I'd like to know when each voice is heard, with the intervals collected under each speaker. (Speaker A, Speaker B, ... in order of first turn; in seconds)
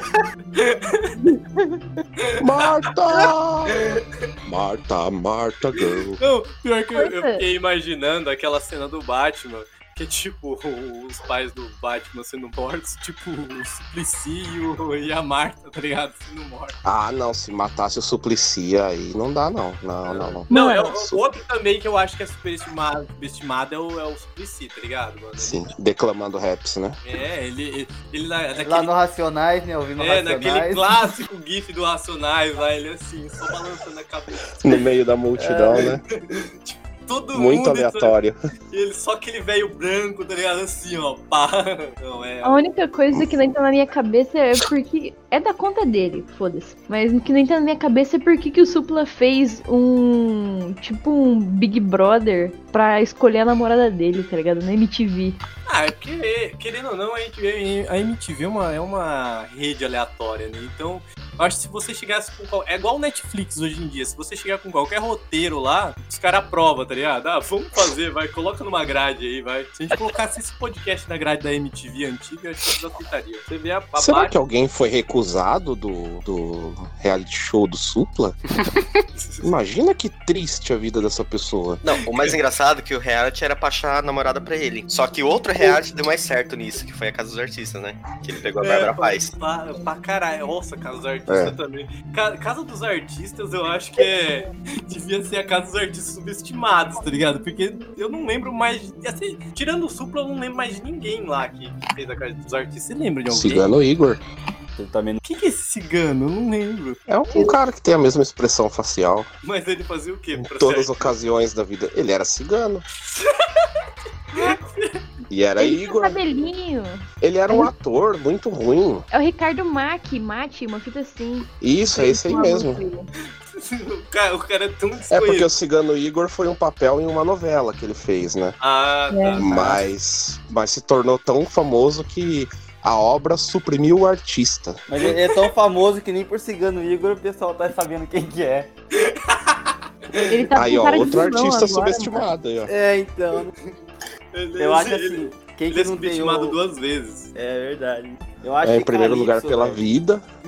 Speaker A: 0.6-1.2, 2.2-2.7, 6.2-16.8, 20.1-25.7, 27.0-28.9, 30.0-34.8, 36.2-38.2, 38.7-42.6, 55.7-74.3, 79.2-79.5, 88.6-103.7, 105.2-107.0, 109.4-111.2, 113.0-115.0, 123.4-125.5, 128.6-129.8, 138.9-140.4, 144.3-147.3
Speaker B: 1.2-1.9, 7.0-7.4, 20.5-20.9, 42.4-55.4, 94.0-94.3, 107.3-107.6, 115.6-117.7, 119.1-123.1, 129.1-129.5, 140.3-142.3
Speaker C: 2.4-3.9, 4.5-6.2, 16.8-21.2, 25.4-27.0, 34.6-36.0, 37.3-38.4, 74.0-78.4, 79.4-81.8, 91.3-91.5, 103.3-104.2, 107.1-109.3, 110.4-112.8, 115.3-116.2, 117.2-119.1, 121.6-122.8, 125.1-128.6, 129.4-134.8, 140.5-142.7, 148.6-150.2
Speaker D: 28.6-30.9, 35.4-35.9, 104.8-105.2, 134.9-138.7, 142.7-143.6, 144.6-146.6, 147.3-149.8
Speaker E: 81.8-89.3